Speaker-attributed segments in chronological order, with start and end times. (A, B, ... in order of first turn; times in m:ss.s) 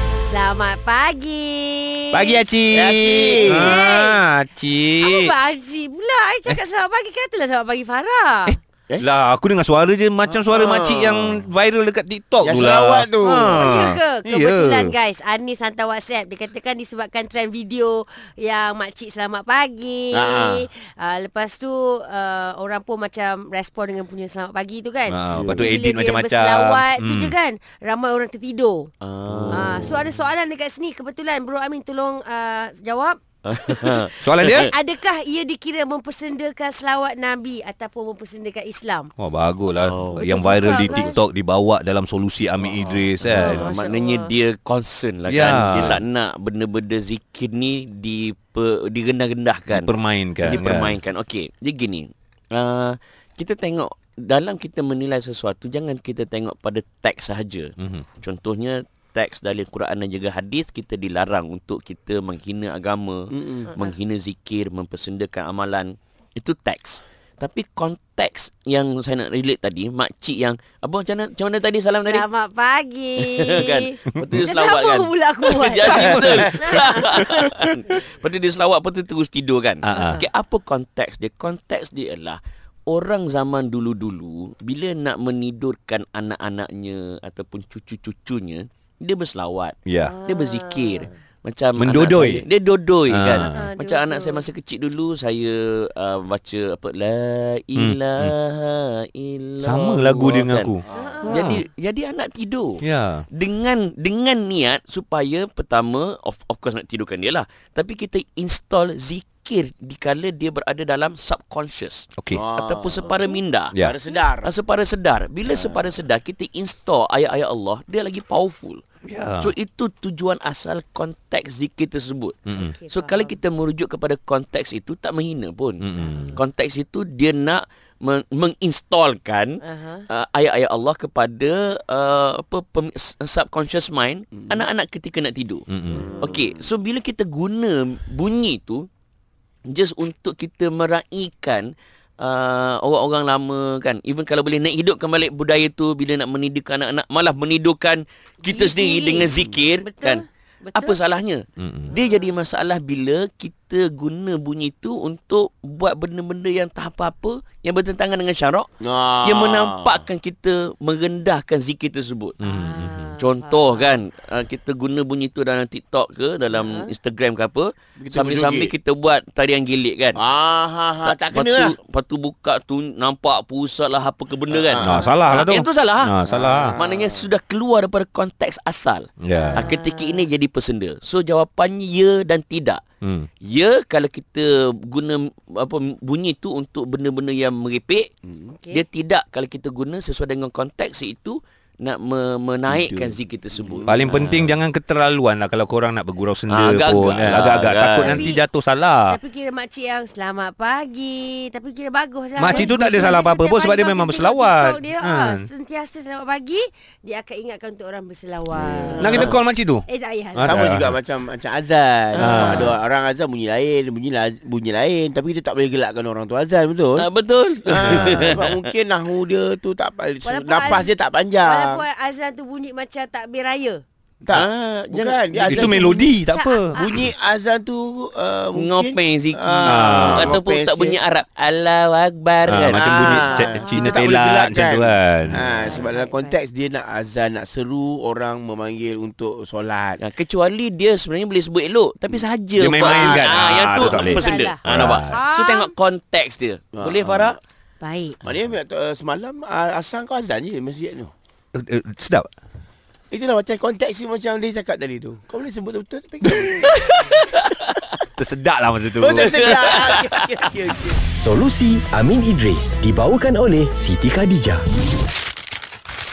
0:00.3-0:02.4 A
0:02.1-0:05.3 B
0:02.7-0:03.8 C
0:03.4-0:04.2 A
0:05.0-0:08.6 A
0:08.5-0:15.0 B
0:10.2-0:11.4 C
0:12.4-0:13.8 C
0:13.5-0:28.9 A
0:20.1-0:20.6 C
0:25.1-0:27.4 B
0:25.4-0:25.6 C
0:29.0-0:30.1 D
0:29.5-0:39.1 A
0:33.4-0:34.7 D
0:34.2-0:34.7 B
0:39.2-0:43.6 B
0:39.8-0:41.0 D
0:40.2-0:41.2 A
0:42.6-1:12.2 D
0:43.3-0:44.3 A
0:45.2-0:46.0 B
0:49.7-0:51.0 B
0:57.8-0:58.0 B
1:03.3-1:03.7 C
1:11.9-1:17.3 A
1:13.2-1:40.7 D
1:19.8-1:20.2 B
1:19.9-1:20.2 A
1:29.8-1:30.2 B
1:30.0-1:31.1 A
1:31.8-1:32.4 B
1:33.1-1:33.6 B
1:33.4-1:34.4 A
1:37.8-1:38.3 B
1:39.6-1:41.6 B
1:40.9-1:41.5 C
1:40.9-1:41.6 A
1:41.3-1:42.8 D
1:42.8-1:43.2 B
1:43.3-1:53.7 D
1:52.2-1:52.4 B
1:52.3-1:54.5 C
1:54.4-1:58.8 D
1:55.4-1:55.8 C
1:59.1-1:59.5 B
1:59.4-2:09.6 D
2:02.5-2:02.8 B
2:02.6-2:03.4 A
2:05.8-2:06.4 B
2:06.0-2:06.4 A
2:09.6-2:10.0 A
2:10.1-2:15.6 D
2:14.4-2:14.6 C
2:15.7-2:16.1 B
2:16.0-2:16.3 C
2:16.2-2:18.9 D
2:19.7-2:42.4 D
2:28.4-2:31.0 A
2:31.6-2:31.9 B
2:31.9-2:32.3 A
2:38.8-2:40.0 C
2:42.4-2:43.1 B
2:42.4-2:44.0 A
2:43.2-2:50.2 D
2:46.5-2:46.9 A
2:48.0-2:48.7 C
2:50.1-2:51.8 C
2:51.0-2:56.2 D
2:54.5-2:55.1 C
2:54.8-2:56.7 B
2:56.2-2:57.3 C
2:56.7-3:02.8 D
2:59.2-2:59.7 B
2:59.3-3:00.3 A
3:03.4-3:08.1 D
3:08.5-3:08.8 A
3:08.7-3:14.6 D
3:12.7-3:13.2 B
3:13.5-3:14.1 C
3:13.8-3:19.2 B
3:16.5-3:18.3 D
3:18.0-3:18.4 A
3:19.1-3:30.6 A
3:22.4-3:25.4 B
3:28.5-3:29.4 C
3:29.0-3:30.9 B
3:30.4-3:37.1 C
3:32.2-3:32.7 D
3:32.2-3:32.7 B
3:37.0-3:38.6 D
3:37.6-3:41.8 C
3:40.2-3:40.9 A
3:41.4-3:43.8 A
3:44.2-3:46.0 C
3:44.3-3:45.7 D
3:45.4-3:47.0 B
3:45.7-3:47.0 A
3:46.8-3:51.0 C
3:48.6-3:53.0 D
3:49.6-3:50.3 B
3:52.4-3:55.4 B
3:52.7-4:00.0 C
3:53.0-3:54.1 A
3:55.3-3:56.4 A
4:00.0-4:07.4 D
4:02.6-4:05.2 B
4:02.8-4:04.1 C
4:03.9-4:05.7 A
4:06.7-4:07.4 C
4:07.8-4:08.2 A
4:08.2-4:11.1 C
4:11.5-4:12.3 B
4:13.1-4:17.4 C
4:16.4-4:17.8 D
4:18.2-4:19.7 B
4:19.0-4:21.0 C
4:19.1-4:20.4 D
4:21.1-4:24.6 E